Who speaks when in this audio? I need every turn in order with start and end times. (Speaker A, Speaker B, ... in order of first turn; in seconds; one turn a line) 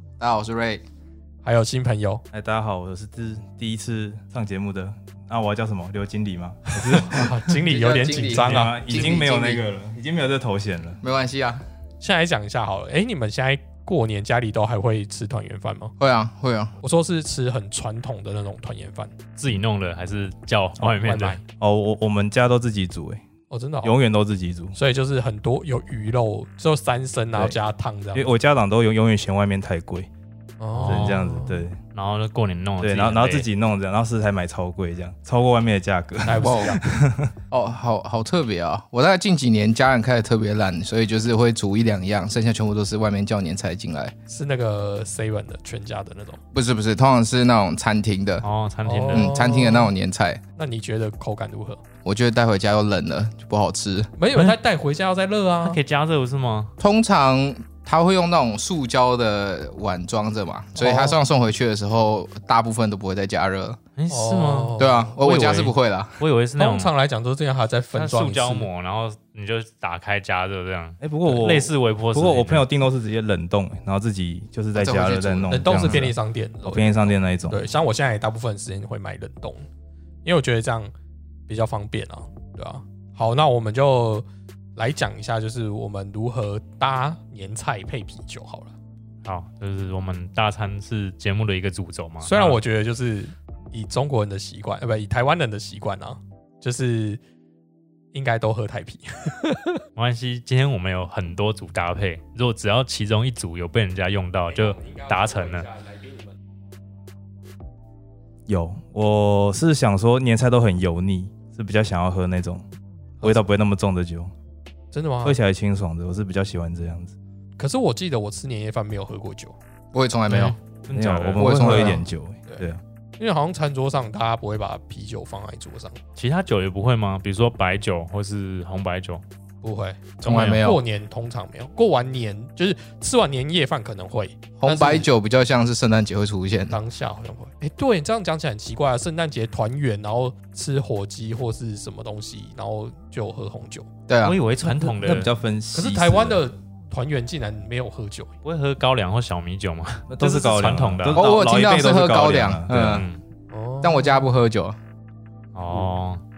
Speaker A: 0.2-0.8
Speaker B: 1.4-2.2
Speaker C: 2.3-7.4
Speaker B: 6.8-8.9
Speaker A: 7.6-9.6
Speaker C: 8.1-11.0
Speaker A: 11.0-11.6
Speaker B: 12.0-15.9
Speaker A: 16.0-16.7
Speaker B: 16.8-19.1
Speaker D: 19.4-21.4
Speaker B: 20.8-21.4
Speaker C: 21.6-23.2
Speaker B: 23.5-23.9
Speaker C: 23.8-24.8
Speaker B: 24.8-28.3
Speaker C: 28.1-30.1
Speaker B: 30.6-31.6
Speaker D: 30.8-31.3
Speaker C: 30.8-31.8
Speaker D: 31.9-33.5
Speaker C: 32.8-37.3
Speaker B: 36.2-36.8
Speaker A: 36.4-36.8
Speaker A: 37.5-44.1
Speaker B: 44.3-46.4
Speaker A: 46.5-48.5
Speaker D: 48.4-49.3
Speaker B: 48.8-49.9
Speaker A: 49.1-50.4
Speaker B: 50.6-51.8
Speaker A: 52.0-54.1
Speaker B: 54.2-55.8
Speaker D: 55.6-56.7
Speaker A: 56.8-63.8
Speaker B: 60.8-61.2
Speaker D: 64.0-66.9
Speaker B: 64.1-65.1
Speaker A: 64.8-66.2
Speaker B: 66.6-68.7
Speaker D: 67.9-72.7
Speaker C: 71.0-77.6
Speaker A: 74.7-76.1
Speaker B: 75.5-79.7
Speaker B: 80.2-80.9
Speaker B: 81.5-88.7
Speaker D: 89.2-92.6
Speaker B: 92.2-97.2
Speaker B: 98.1-99.8
Speaker D: 100.0-105.7
Speaker B: 104.5-106.3
Speaker C: 108.5-112.7
Speaker C: 113.2-114.3
Speaker B: 114.9-115.4
Speaker C: 115.2-117.2
Speaker B: 117.6-119.5
Speaker A: 119.9-120.5
Speaker D: 120.3-122.0
Speaker C: 120.9-122.8
Speaker A: 121.3-122.0
Speaker B: 123.2-126.0
Speaker D: 126.2-129.2
Speaker B: 129.6-135.1
Speaker D: 130.2-130.7
Speaker A: 130.2-130.8
Speaker A: 134.6-136.8
Speaker B: 136.7-143.9
Speaker A: 144.1-144.4
Speaker D: 144.2-145.3
Speaker C: 144.7-146.4
Speaker B: 145.7-148.3
Speaker D: 148.4-151.2
Speaker C: 150.1-153.1
Speaker A: 151.1-153.1
Speaker D: 152.9-153.2
Speaker B: 153.5-154.3
Speaker A: 153.8-154.8
Speaker D: 155.5-156.2